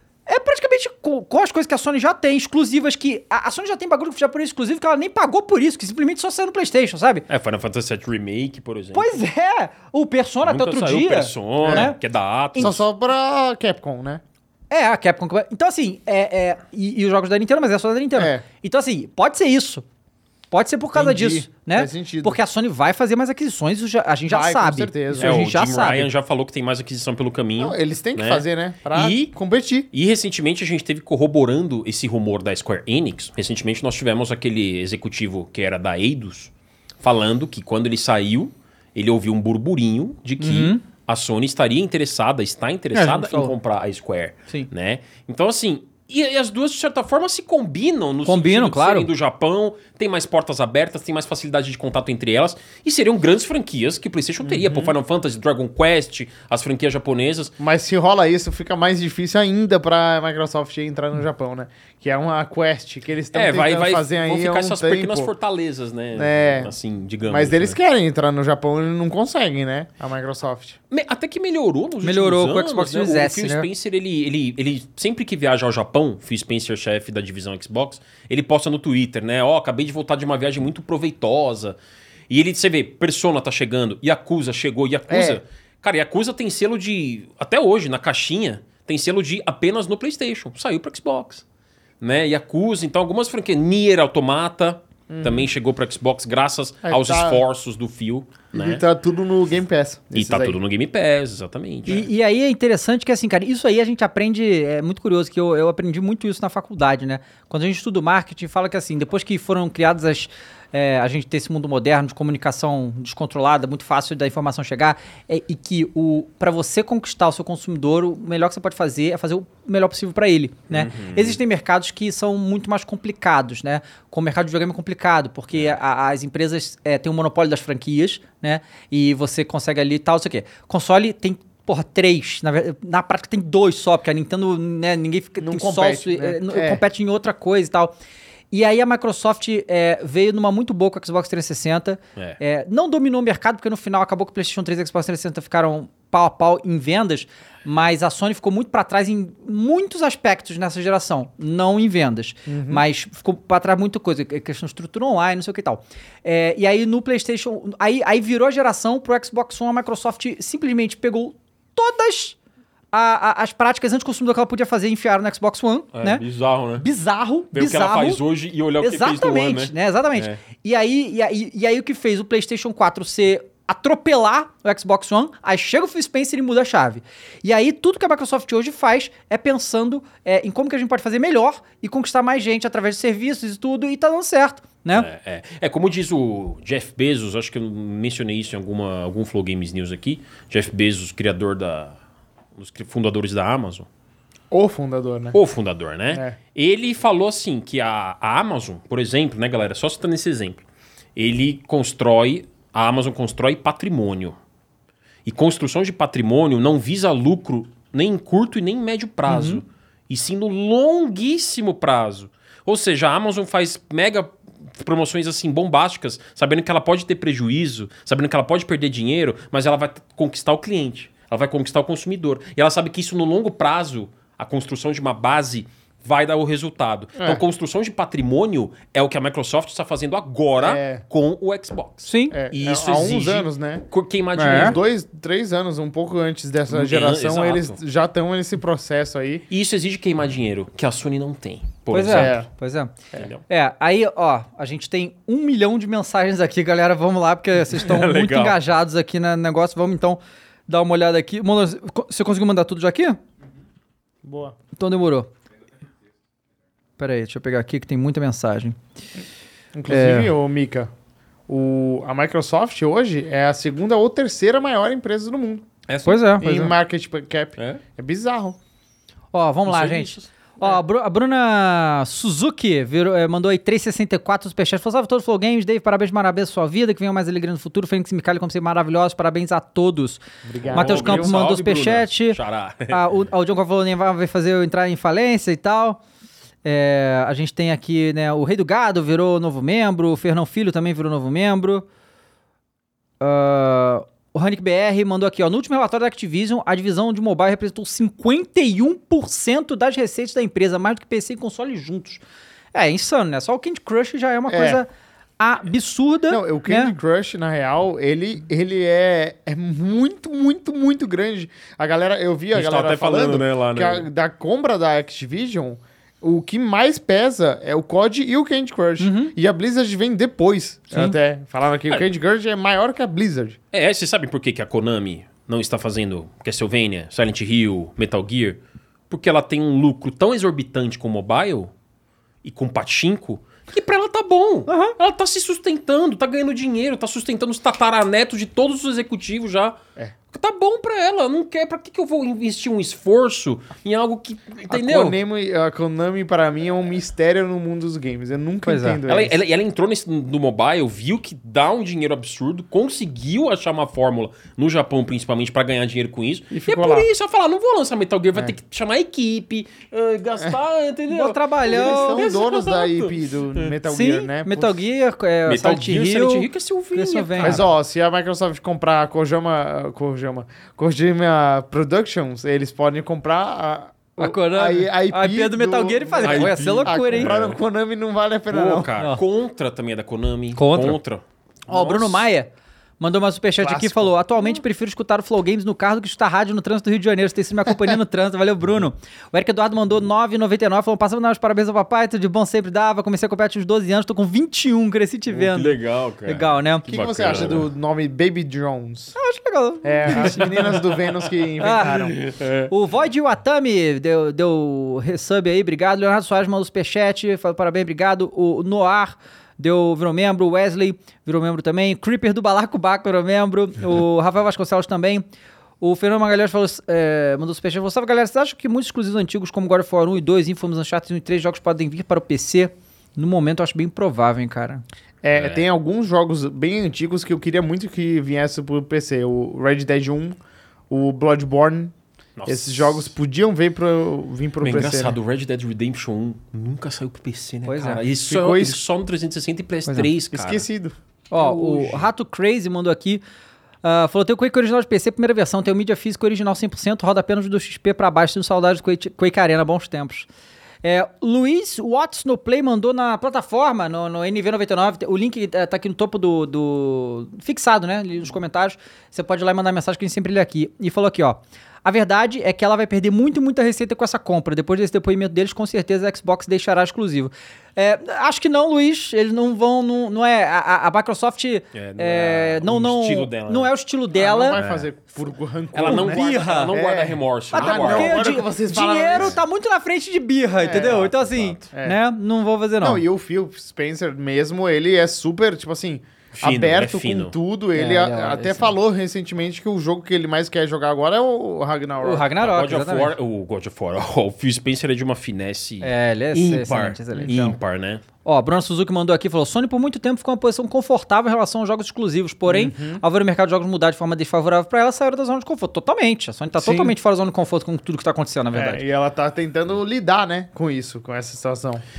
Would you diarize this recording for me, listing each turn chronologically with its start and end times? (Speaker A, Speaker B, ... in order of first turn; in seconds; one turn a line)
Speaker A: 0.3-7.2
Speaker B: 7.3-9.2
Speaker A: 8.9-12.0
Speaker B: 10.4-12.8
Speaker C: 11.6-11.9
Speaker C: 12.6-14.2
Speaker A: 14.7-19.8
Speaker C: 18.1-18.4
Speaker A: 20.5-26.1
Speaker C: 20.9-22.4
Speaker C: 24.3-25.4
Speaker B: 25.2-29.3
Speaker C: 27.6-29.9
Speaker B: 29.9-57.5
Speaker A: 40.4-40.8
Speaker A: 42.9-43.5
Speaker A: 48.2-49.1
Speaker C: 54.4-54.9
Speaker C: 57.6-65.3
Speaker B: 63.3-67.8
Speaker C: 66.1-66.7
Speaker C: 67.2-70.8
Speaker B: 70.9-81.8
Speaker A: 72.0-73.7
Speaker B: 82.3-91.4
Speaker C: 85.1-85.4
Speaker B: 92.0-98.8
Speaker C: 95.1-95.5
Speaker C: 96.8-97.4
Speaker C: 98.5-100.6
Speaker B: 100.1-102.1
Speaker A: 101.9-137.9
Speaker B: 120.7-121.4
Speaker C: 135.4-136.8
Speaker A: 138.5-162.4
Speaker C: 152.5-152.8
Speaker A: 162.9-166.2
Speaker B: 165.9-166.8
Speaker A: 166.8-168.2
Speaker B: 167.5-170.4
Speaker A: 168.8-185.1
Speaker B: 184.9-192.0
Speaker B: 192.6-193.9
Speaker C: 194.5-195.4
Speaker B: 195.3-200.6
Speaker C: 196.1-196.4
Speaker B: 201.2-204.3
Speaker B: 205.2-234.8
Speaker A: 209.3-209.6
Speaker C: 230.6-231.0
Speaker A: 232.1-232.3
Speaker C: 232.3-233.8
Speaker A: 234.4-234.8
Speaker C: 234.4-239.4
Speaker B: 236.7-237.8
Speaker B: 239.5-242.4
Speaker A: 241.9-242.9
Speaker C: 242.1-242.5
Speaker B: 243.1-243.4
Speaker A: 243.5-253.2
Speaker B: 247.7-248.6
Speaker C: 254.2-254.6
Speaker A: 254.8-255.3
Speaker A: 257.0-258.8
Speaker C: 259.8-260.9
Speaker A: 259.9-260.3
Speaker C: 261.5-265.6
Speaker B: 265.9-266.2
Speaker A: 266.1-266.7
Speaker C: 266.4-268.6
Speaker B: 267.6-267.8
Speaker A: 269.3-286.0
Speaker B: 269.6-270.3
Speaker C: 280.4-281.4
Speaker B: 280.6-283.1
Speaker A: 286.6-291.8
Speaker A: 293.2-302.2
Speaker A: 302.7-306.9
Speaker C: 304.5-304.8
Speaker C: 306.3-323.6
Speaker B: 312.5-314.1
Speaker A: 319.0-319.3
Speaker B: 323.7-331.7
Speaker B: 332.4-339.8
Speaker A: 334.7-334.9
Speaker B: 340.3-345.2
Speaker C: 344.7-349.4
Speaker A: 348.6-349.0
Speaker B: 349.1-363.8
Speaker C: 356.5-357.1
Speaker A: 361.1-362.2
Speaker C: 361.6-364.8
Speaker A: 363.9-367.6
Speaker B: 365.4-367.7
Speaker C: 367.4-378.9
Speaker A: 374.2-377.3
Speaker B: 376.2-377.6
Speaker B: 378.5-382.2
Speaker A: 380.5-381.0
Speaker A: 381.7-396.9
Speaker C: 383.6-384.1
Speaker B: 395.3-397.7
Speaker C: 396.9-399.1
Speaker A: 399.1-400.8
Speaker C: 399.8-402.1
Speaker B: 400.1-401.1
Speaker A: 401.6-402.1
Speaker B: 401.8-402.7
Speaker A: 402.7-415.2
Speaker A: 415.8-424.8
Speaker C: 425.2-430.4
Speaker B: 425.3-425.6
Speaker C: 430.9-431.9
Speaker B: 432.4-433.1
Speaker C: 432.5-435.2
Speaker B: 434.6-440.6
Speaker A: 437.6-438.0
Speaker C: 438.2-438.8
Speaker C: 440.3-442.0
Speaker A: 441.3-443.2
Speaker A: 443.8-450.3
Speaker A: 450.8-474.6
Speaker B: 471.7-473.7
Speaker C: 474.1-479.4
Speaker B: 474.5-474.9
Speaker B: 475.7-478.3
Speaker A: 475.8-476.8
Speaker A: 477.5-483.0
Speaker C: 480.6-481.0
Speaker B: 480.7-481.7
Speaker C: 481.7-482.0
Speaker C: 482.8-492.2
Speaker B: 486.3-487.4
Speaker A: 487.7-488.8
Speaker A: 492.0-493.1
Speaker B: 492.4-498.0
Speaker A: 495.8-497.5
Speaker C: 497.2-497.5
Speaker A: 498.2-508.8
Speaker C: 502.4-503.0
Speaker C: 506.5-506.9
Speaker C: 508.5-511.8